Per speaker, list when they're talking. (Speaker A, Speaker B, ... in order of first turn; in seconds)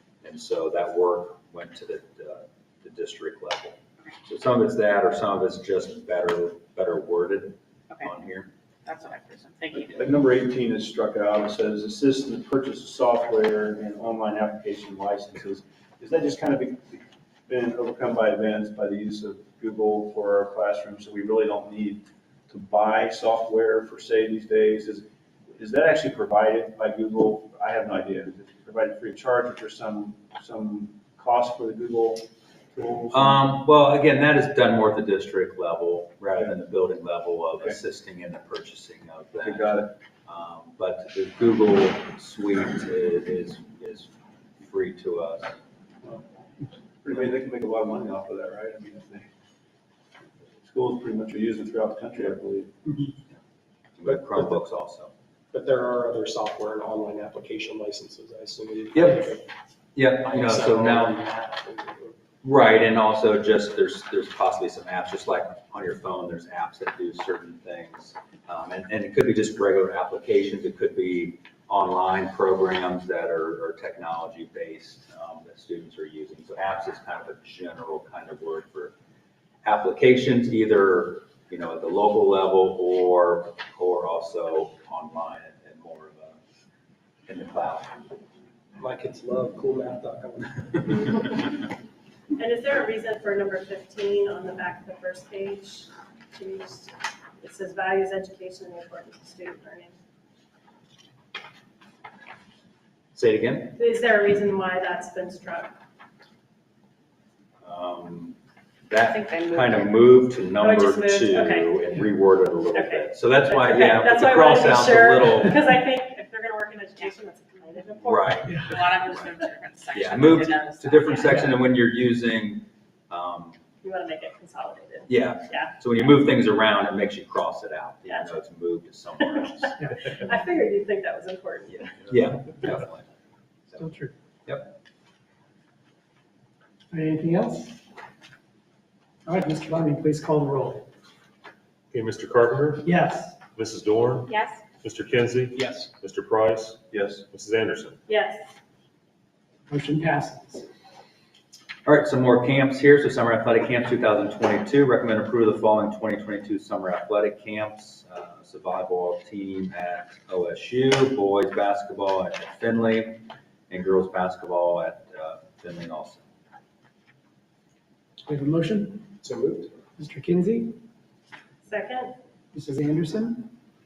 Speaker A: 0.2-8.5, 33.1-45.5, 54.0-55.1, 58.9-59.4, 60.0-61.2, 62.4-78.9, 79.6-86.4, 87.3-88.0, 103.2-103.8, 107.6-108.3, 108.9-115.6, 118.0-119.3, 119.9-123.6, 125.1-129.8, 132.0-133.1, 134.5-134.8, 151.8-166.2
Speaker B: 8.9-10.0, 109.1-109.9, 118.8-121.2, 144.3-144.6
Speaker C: 9.9-25.1, 25.6-33.4, 39.4-39.9, 47.0-49.3, 50.6-53.0, 146.9-147.2
Speaker D: 54.0-54.5, 55.5-59.5, 60.2-62.2, 88.8-91.2, 145.6-145.9, 169.2-169.8
Speaker E: 92.4-100.0, 103.8-105.8, 110.6-111.7, 112.7-118.6, 123.8-125.8, 128.1-128.3, 130.1-132.1, 148.1-148.4, 171.7-172.1
Speaker F: 129.8-130.1, 133.8-134.1, 136.9-137.8, 139.3-140.9, 142.8-143.4, 149.7-150.7, 168.3-169.2, 170.0-170.8, 172.5-173.5
Speaker G: 141.9-142.9, 143.5-146.8, 147.3-148.0